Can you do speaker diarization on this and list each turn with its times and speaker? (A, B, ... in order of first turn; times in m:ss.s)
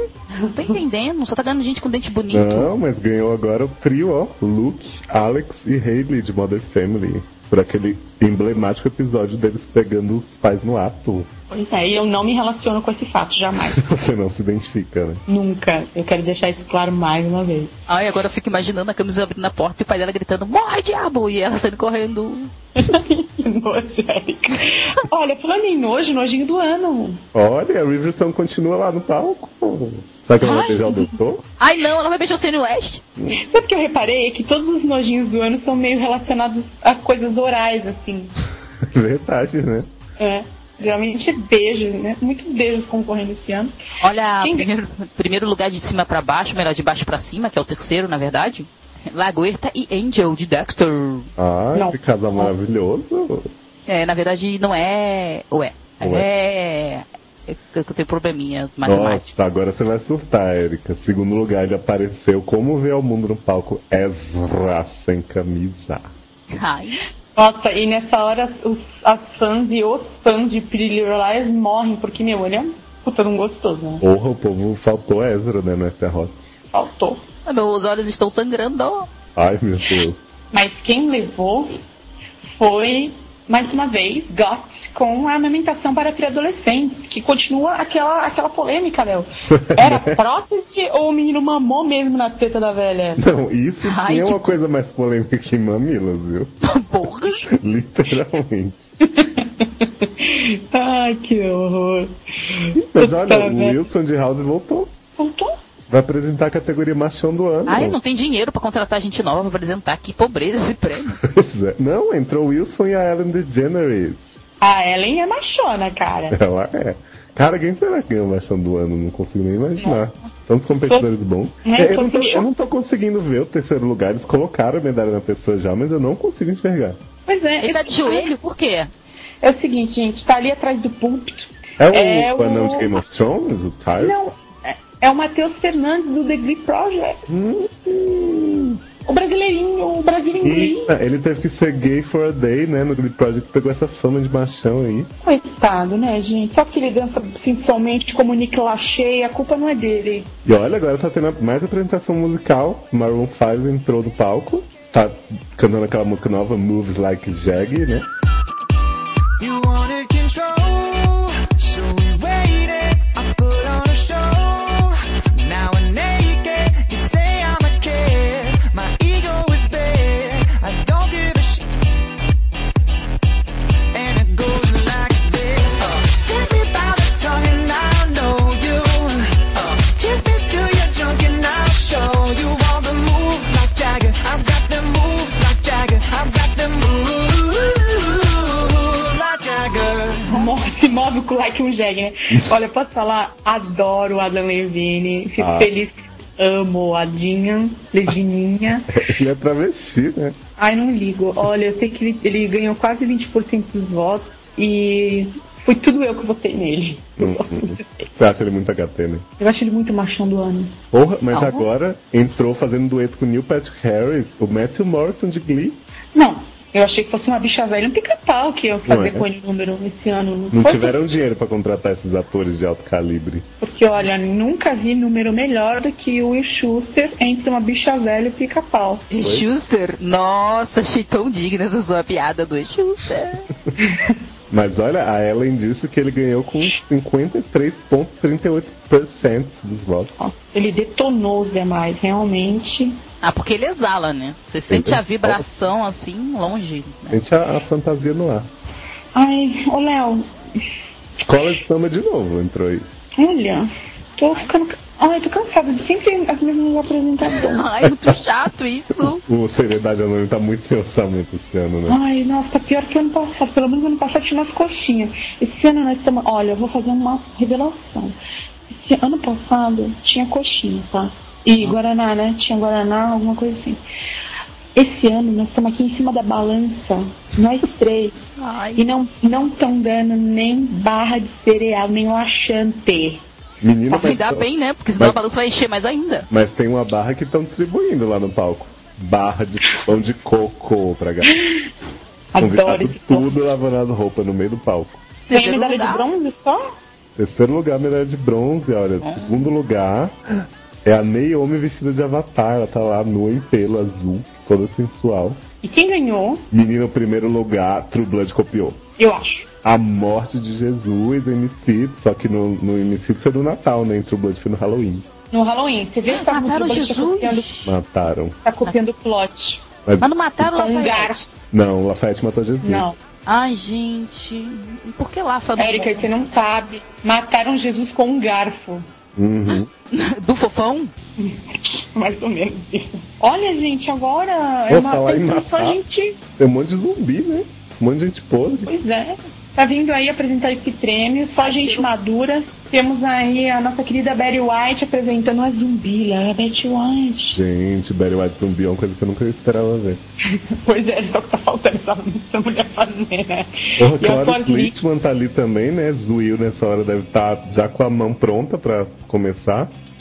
0:00.5-0:02.7 A
0:02.3-0:11.3 B
0:11.5-0:13.9 C
0:13.7-0:15.2 B
0:15.3-0:17.7 C
0:17.9-0:22.5 A
0:22.8-0:27.2 C
0:27.3-0:31.4 B
0:30.4-0:33.0 A
0:33.3-0:38.3 C
0:38.8-0:39.9 B
0:40.2-0:43.7 C
0:44.0-0:51.3 A
0:44.4-0:44.6 C
0:51.4-0:53.5 B
0:51.7-0:52.5 C
0:53.9-0:59.3 A
0:56.0-0:56.3 B
0:58.8-1:06.1 B
1:06.5-1:07.0 A
1:07.4-1:14.0 C
1:14.0-1:16.4 B
1:16.7-1:17.2 C
1:17.4-1:19.1 A
1:19.4-1:20.2 B
1:20.5-1:21.7 C
1:22.5-1:33.2 C
1:29.5-1:30.2 B
1:33.2-1:36.5 B
1:33.8-1:34.5 A
1:36.6-1:37.5 A
1:37.5-1:38.8 B
1:39.0-1:43.8 C
1:42.7-1:44.9 B
1:45.2-1:45.5 C
1:45.9-1:48.0 B
1:47.7-1:51.2 A
1:51.2-1:54.2 B
1:54.6-1:56.4 C
1:56.3-2:07.0 B
2:00.8-2:02.5 C
2:07.3-2:08.3 C
2:07.6-2:08.9 A
2:09.4-2:12.9 C
2:11.8-2:14.2 B
2:14.0-2:17.2 C
2:17.3-2:18.8 B
2:19.0-2:20.9 C
2:20.4-2:25.1 B
2:25.2-2:30.3 C
2:30.4-2:38.1 B
2:39.4-2:51.6 D
2:53.9-3:10.3 D
3:10.2-3:18.9 C
3:15.4-3:15.7 B
3:18.9-3:20.4 B
3:20.6-3:28.1 C
3:27.2-3:29.2 B
3:29.4-3:30.7 C
3:30.9-3:35.8 B
3:31.3-3:31.6 A
3:36.1-3:41.0 C
3:38.9-3:39.2 B
3:40.5-3:43.5 B
3:43.6-3:49.0 C
3:49.1-3:53.5 A
3:49.2-3:49.4 B
3:53.8-3:54.2 C
3:54.5-4:00.3 B
4:00.2-4:03.0 C
4:03.2-4:07.2 A
4:04.7-4:05.4 B
4:07.1-4:08.5 B
4:09.1-4:10.3 C
4:11.1-4:12.8 B
4:13.2-4:17.7 C
4:17.4-4:19.2 A
4:17.8-4:18.2 B
4:19.0-4:22.0 B
4:21.9-4:28.1 C
4:28.7-4:33.8 C
4:34.7-4:38.2 C
4:38.4-4:38.8 A
4:38.8-4:43.2 C
4:43.6-4:45.2 B
4:43.9-4:46.3 A
4:46.3-4:51.3 B
4:51.2-4:51.6 C
4:52.3-4:53.5 C
4:52.4-4:55.0 B
4:55.3-4:56.0 A
4:55.3-4:56.6 C
4:57.2-5:00.1 B
4:59.0-4:59.5 A
5:00.8-5:05.4 B
5:05.6-5:06.4 C
5:06.5-5:08.8 B
5:09.0-5:09.5 C
5:09.6-5:15.0 B
5:15.3-5:17.5 C
5:16.1-5:17.7 A
5:17.6-5:18.4 B
5:18.4-5:19.6 C
5:20.0-5:21.3 A
5:20.4-5:21.2 C
5:21.5-5:22.9 B
5:22.6-5:23.0 C
5:23.2-5:26.2 A
5:25.6-5:28.8 C
5:29.2-5:29.7 B
5:29.9-5:30.9 A
5:31.2-5:36.2 C
5:34.7-5:35.8 B
5:36.4-5:38.7 B
5:38.6-5:47.4 C
5:41.4-5:41.9 A
5:47.3-5:50.0 B
5:50.3-5:54.8 C
5:53.8-5:59.7 B